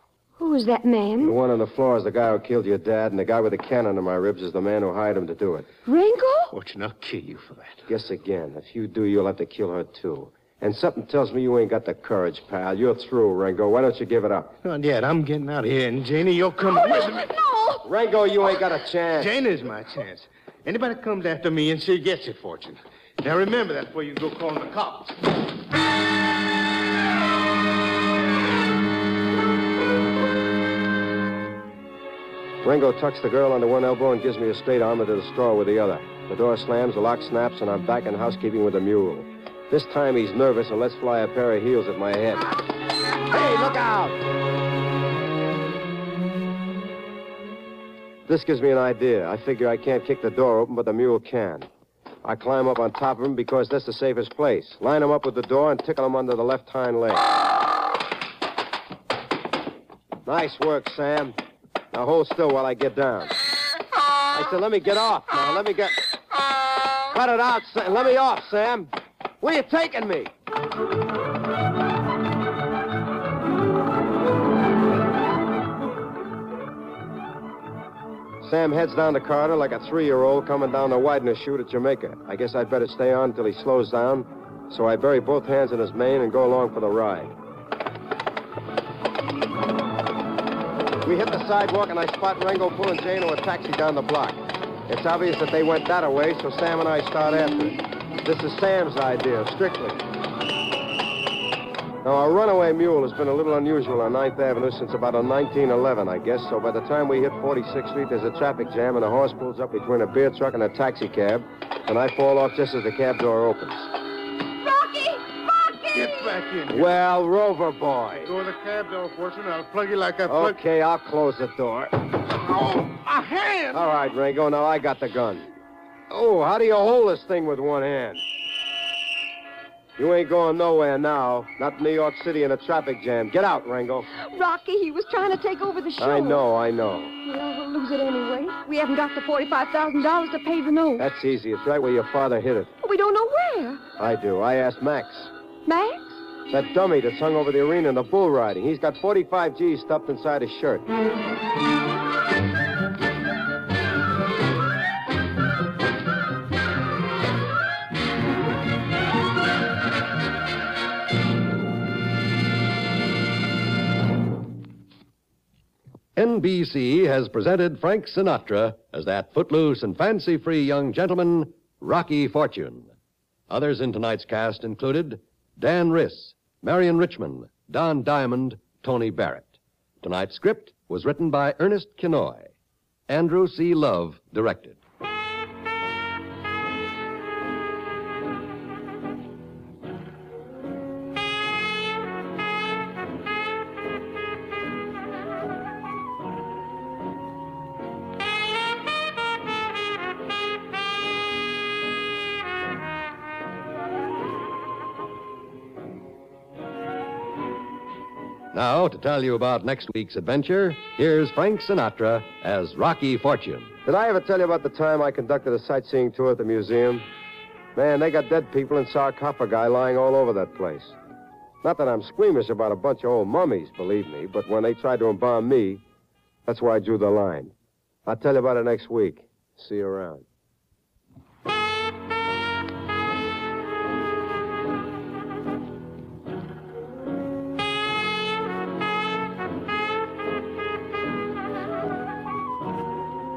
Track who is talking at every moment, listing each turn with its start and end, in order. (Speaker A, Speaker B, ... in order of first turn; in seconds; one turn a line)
Speaker A: 0.4-1.4
Speaker B: 1.2-5.7
Speaker A: 5.9-6.5
Speaker C: 6.5-7.8
Speaker B: 7.9-14.6
Speaker C: 14.6-17.3
Speaker A: 16.7-17.8
Speaker B: 17.8-19.3
Speaker C: 19.2-25.2
Speaker B: 32.6-42.5
Speaker B: 43.3-44.2
Speaker B: 48.3-51.7
Speaker B: 52.2-57.3
Speaker B: 60.2-61.4
Speaker B: 61.9-63.4
Speaker B: 64.3-66.0
Speaker B: 67.1-68.9
Speaker B: 69.4-70.3
Speaker B: 78.4-87.3
Speaker B: 91.0-100.0
Speaker B: 102.0-113.9
Speaker A: 114.6-116.4
Speaker C: 115.9-116.9
Speaker B: 116.7-118.3
Speaker C: 118.2-120.6
Speaker B: 120.3-122.0
Speaker C: 122.3-123.8
Speaker B: 123.7-125.5
Speaker B: 126.1-128.2
Speaker B: 130.0-134.1
Speaker A: 134.2-136.4
Speaker B: 136.0-137.1
Speaker A: 137.2-141.1
Speaker B: 141.0-142.7
Speaker A: 142.8-143.8
Speaker B: 144.0-145.3
Speaker A: 145.7-146.2
Speaker B: 146.5-150.9
Speaker D: 166.2-172.9
Speaker D: 173.5-182.5
Speaker D: 183.1-184.8
Speaker D: 208.5-213.8
Speaker B: 213.8-217.1
Speaker B: 217.8-221.0
Speaker B: 221.6-225.8
Speaker B: 226.5-227.5
Speaker B: 228.1-230.2